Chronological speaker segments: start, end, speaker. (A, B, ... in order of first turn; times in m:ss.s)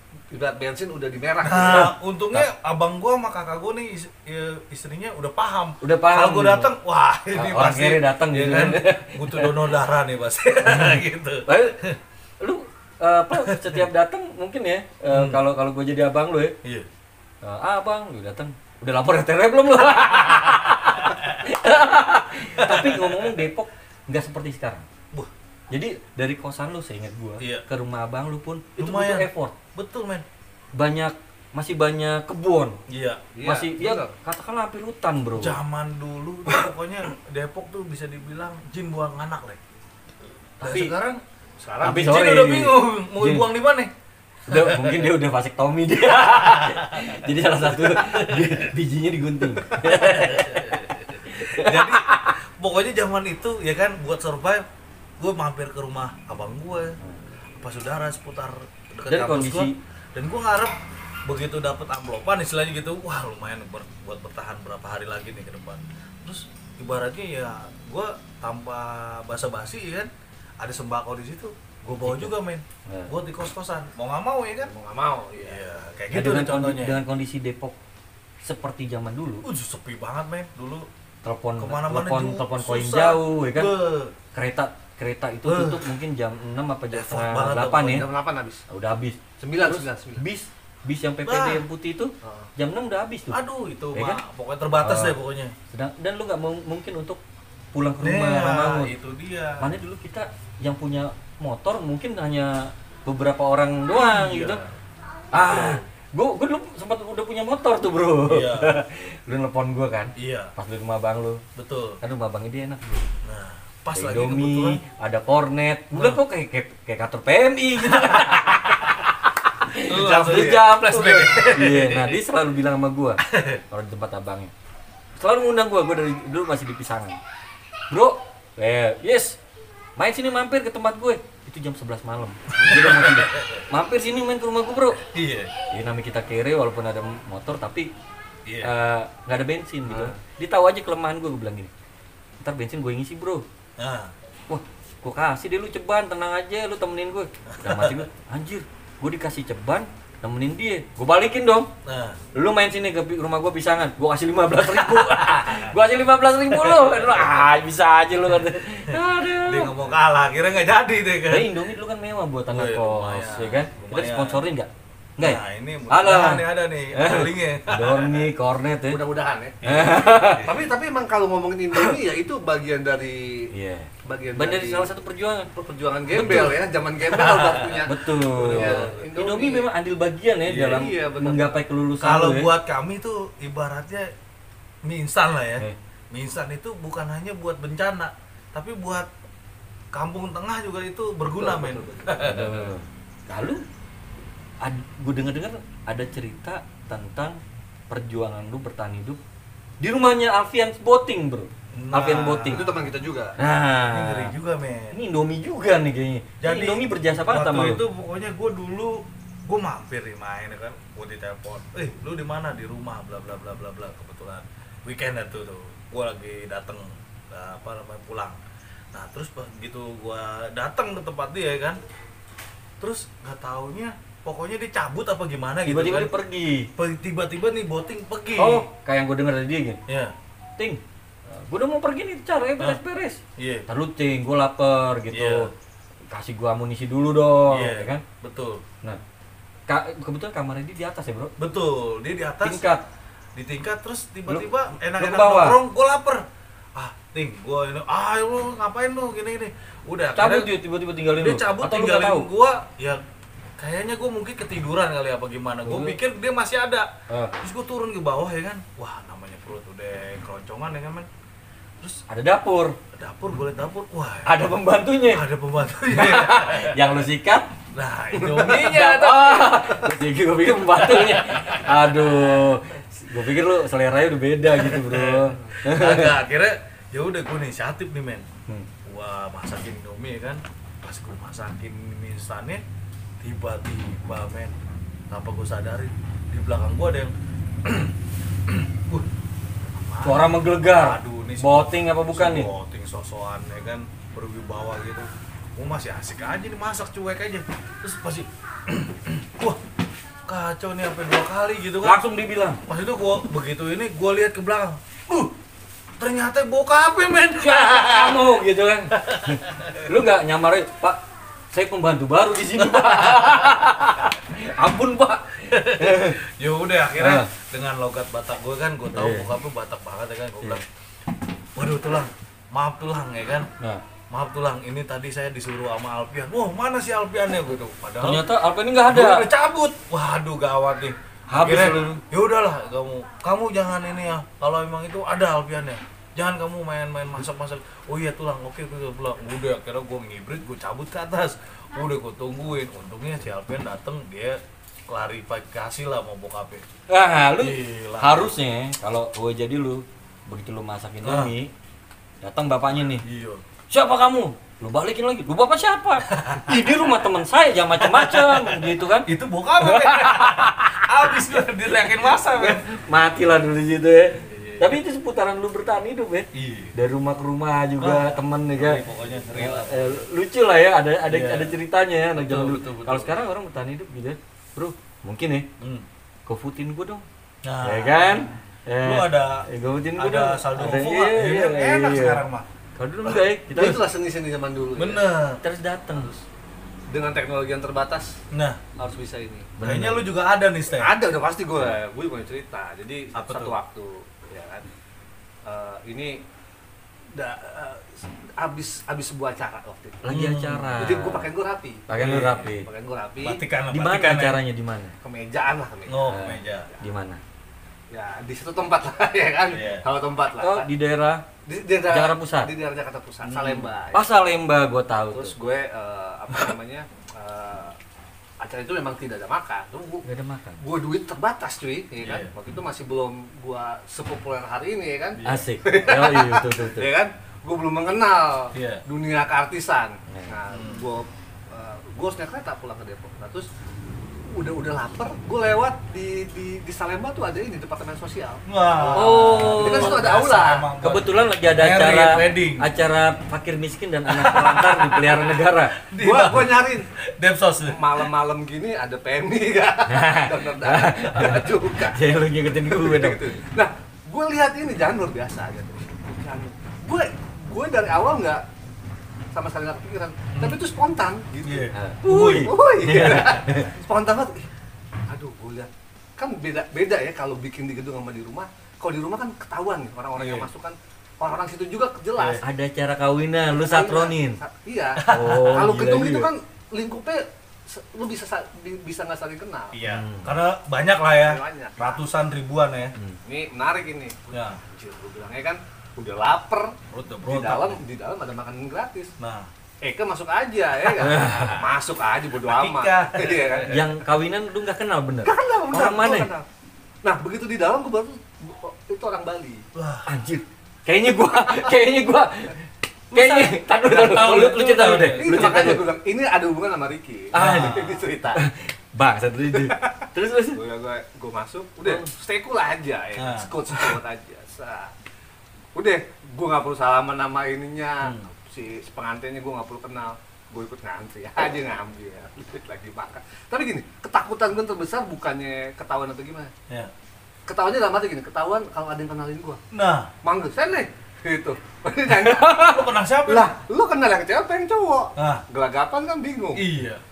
0:00.3-0:01.9 A
0:01.4-0:12.0 B
0:05.8-0:06.7 C
0:07.3-0:09.7 C
0:10.7-0:11.8 C
0:12.4-0:16.6 C
0:13.4-0:13.8 B
0:15.1-0:15.4 B
0:16.6-0:16.9 B
0:17.4-0:24.9 C
0:20.3-0:21.4 B
0:22.6-0:23.4 B
0:25.7-0:29.6 C
0:27.4-0:27.7 B
0:28.8-0:30.3 B
0:30.8-0:32.8 C
0:32.9-0:33.3 B
0:33.4-0:34.1 A
0:33.4-0:35.6 C
0:35.4-0:39.6 B
0:40.6-0:40.9 C
0:40.6-0:41.2 B
0:41.6-0:42.2 A
0:41.8-0:43.5 C
0:41.9-0:43.9 B
0:44.5-0:52.4 C
0:44.5-0:45.0 B
0:46.2-0:48.7 B
0:49.8-0:54.6 B
0:55.2-0:57.0 B
0:57.6-1:14.7 B
0:59.1-0:59.8 C
1:12.0-1:12.3 C
1:12.9-1:13.1 C
1:14.6-1:15.9 A
1:15.4-1:17.0 B
1:16.1-1:17.8 C
1:18.4-1:19.5 C
1:19.4-1:20.9 B
1:21.2-1:23.7 C
1:21.6-1:24.1 B
1:24.3-1:28.0 C
1:25.4-1:25.9 B
1:26.9-1:28.0 B
1:27.8-1:28.6 A
1:28.7-1:33.4 C
1:29.4-1:30.2 A
1:31.2-1:31.6 B
1:32.2-1:32.5 A
1:33.3-1:35.6 B
1:33.9-1:34.2 C
1:34.8-1:35.2 C
1:35.7-1:37.2 C
1:37.7-1:38.9 C
1:38.0-1:39.7 B
1:39.6-1:44.6 C
1:43.9-1:44.7 B
1:45.3-1:51.4 C
1:45.3-1:45.8 B
1:48.3-1:48.8 B
1:50.2-1:50.5 B
1:51.6-1:52.0 B
1:52.0-1:53.1 C
1:53.2-1:54.8 B
1:53.9-2:04.5 C
1:55.9-1:56.2 B
1:57.9-1:58.6 B
1:59.9-2:02.2 B
2:03.2-2:03.6 B
2:05.2-2:07.2 C
2:07.9-2:09.4 C
2:10.0-2:15.0 C
2:12.6-2:13.7 B
2:15.0-2:15.5 B
2:15.7-2:17.9 C
2:18.5-2:18.7 B
2:18.6-2:21.7 C
2:22.4-2:23.4 C
2:23.8-2:24.1 B
2:24.5-2:31.7 C
2:27.5-2:28.0 B
2:31.8-2:32.2 B
2:32.4-2:39.8 C
2:34.6-2:35.8 B
2:36.5-2:37.4 B
2:38.9-2:41.5 B
2:41.3-2:49.0 C
2:42.5-2:44.4 B
2:45.2-2:48.3 B
2:48.9-2:49.6 A
2:49.6-2:50.6 B
2:49.6-2:50.5 C
2:50.4-2:53.5 A
2:53.5-2:55.5 C
2:54.0-2:54.9 A
2:55.6-2:59.7 A
2:56.1-2:56.6 C
2:57.1-2:57.9 B
2:57.8-3:02.5 C
2:58.4-2:58.9 B
3:00.4-3:00.9 B
3:00.7-3:01.6 A
3:02.0-3:04.1 B
3:04.8-3:09.1 B
3:09.9-3:12.7 B
3:11.4-3:12.4 A
3:12.2-3:13.6 C
3:14.6-3:19.2 C
3:19.8-3:22.6 C
3:21.7-3:22.8 B
3:22.5-3:23.4 A
3:23.4-3:24.3 C
3:23.9-3:25.0 B
3:24.9-3:27.8 C
3:26.4-3:38.4 B
3:38.9-3:41.8 B
3:42.8-3:46.1 B
3:45.7-3:46.7 C
3:46.8-3:48.7 B
3:48.4-3:49.8 C
3:49.9-3:50.1 B
3:50.6-3:55.5 C
3:53.4-3:53.7 B
3:55.1-3:55.5 B
3:56.1-3:58.0 C
3:57.5-3:58.6 B
3:59.7-4:01.3 C
4:01.4-4:02.6 B
4:02.4-4:02.9 C
4:03.4-4:10.5 B
4:04.3-4:05.6 C
4:10.2-4:12.3 C
4:11.1-4:13.0 B
4:13.6-4:21.1 B
4:15.6-4:16.0 C
4:22.1-4:22.8 C
4:22.9-4:24.4 B
4:24.2-4:25.2 C
4:25.1-4:26.9 B
4:25.9-4:27.5 C
4:27.7-4:29.5 B
4:28.1-4:28.9 A
4:28.4-4:36.2 C
4:29.6-4:29.9 A
4:34.6-4:38.3 B
4:38.8-4:42.6 B
4:43.2-4:44.6 B
4:45.1-4:47.1 B
4:47.6-4:48.0 B
4:48.5-4:49.1 B
4:49.7-4:59.6 B
4:50.0-4:52.5 C
5:00.3-5:02.0 B
5:01.8-5:02.6 C
5:02.7-5:05.3 B
5:06.0-5:08.2 B
5:07.4-5:11.0 C
5:08.9-5:09.9 B
5:11.5-5:16.2 C
5:12.6-5:13.7 B
5:15.4-5:20.6 B
5:17.0-5:17.3 C
5:18.9-5:19.3 C
5:21.6-5:23.5 B
5:24.1-5:28.3 B
5:28.0-5:29.3 C
5:28.9-5:46.6 B
5:31.3-5:32.0 C
5:46.9-5:51.5 C
5:47.4-5:48.3 B
5:51.0-5:51.4 B
5:52.2-5:53.0 C
5:53.0-5:53.4 B
5:53.7-5:59.1 C
5:56.1-5:56.6 B
5:57.8-6:02.6 B
5:59.6-6:01.2 C
6:02.3-6:08.8 C
6:04.2-6:04.8 B
6:06.3-6:06.8 B
6:07.8-6:10.0 B
6:09.4-6:15.5 C
6:11.1-6:11.6 B
6:12.2-6:13.1 B
6:15.6-6:15.9 B
6:16.3-6:17.1 C
6:17.4-6:22.5 B
6:17.6-6:22.2 C
6:22.8-6:23.8 C
6:23.0-6:23.8 B
6:23.5-6:25.1 A
6:24.8-6:25.4 B
6:25.4-6:26.1 C
6:25.9-6:26.2 A
6:26.9-6:28.2 A
6:28.3-6:28.6 B
6:28.8-6:29.6 A
6:29.6-6:30.1 C
6:29.6-6:30.9 B
6:30.8-6:34.7 A
6:33.1-6:33.6 B
6:35.4-6:36.2 A
6:37.1-6:40.2 A
6:40.0-6:41.3 C
6:40.1-6:40.8 B
6:40.8-6:43.4 A
6:41.9-6:42.7 C
6:42.0-6:42.5 B
6:43.2-6:44.4 B
6:43.7-6:45.0 C
6:45.0-6:46.2 A
6:45.9-6:46.7 B
6:46.1-6:47.2 C
6:47.9-6:50.7 A
6:49.5-6:49.8 B
6:50.4-6:51.2 C
6:51.5-6:54.1 A
6:51.9-6:52.5 C
6:53.2-6:53.7 B
6:53.9-6:55.3 C
6:55.1-6:57.8 A
6:58.4-7:00.1 A
7:00.0-7:00.6 C
7:00.6-7:13.5 A
7:02.0-7:02.3 B
7:05.2-7:05.5 B
7:05.2-7:06.9 C
7:08.5-7:08.8 B
7:10.1-7:10.4 C
7:10.5-7:10.9 B
7:14.3-7:20.7 A
7:18.5-7:22.7 B
7:18.9-7:20.1 C
7:20.8-7:25.8 C
7:24.1-7:28.1 B
7:25.9-7:26.9 A
7:27.7-7:38.4 A
7:29.9-7:33.3 C
7:39.3-7:44.5 A
7:40.4-7:40.6 B
7:41.4-7:42.6 B
7:41.7-7:43.7 C
7:45.1-7:52.4 A
7:50.2-7:50.5 B
7:52.2-7:52.4 B
7:52.4-7:54.4 C
7:53.5-7:59.8 A
7:55.0-7:55.8 B
7:55.1-7:56.3 C
7:59.7-8:03.0 B
7:59.8-8:00.3 C
8:01.2-8:02.0 A
8:03.2-8:09.1 A
8:04.3-8:04.6 B
8:06.9-8:07.8 B
8:09.2-8:09.5 B
8:09.8-8:13.8 A
8:11.0-8:11.6 C
8:12.4-8:13.9 B
8:13.7-8:16.3 C
8:15.2-8:16.5 A
8:17.0-8:19.6 A
8:19.7-8:20.1 B
8:20.1-8:22.6 C
8:23.1-8:25.8 C
8:23.1-8:25.8 B
8:25.2-8:28.4 A
8:27.3-8:27.8 C
8:27.4-8:28.0 B
8:28.3-8:30.6 C
8:29.5-8:34.9 A
8:33.2-8:34.0 B
8:35.7-8:46.5 A
8:38.0-8:38.3 B
8:47.5-8:49.6 A
8:49.7-8:50.1 B
8:50.2-8:56.7 A
8:52.6-8:53.6 B
8:55.2-8:55.4 B
8:56.6-8:57.0 B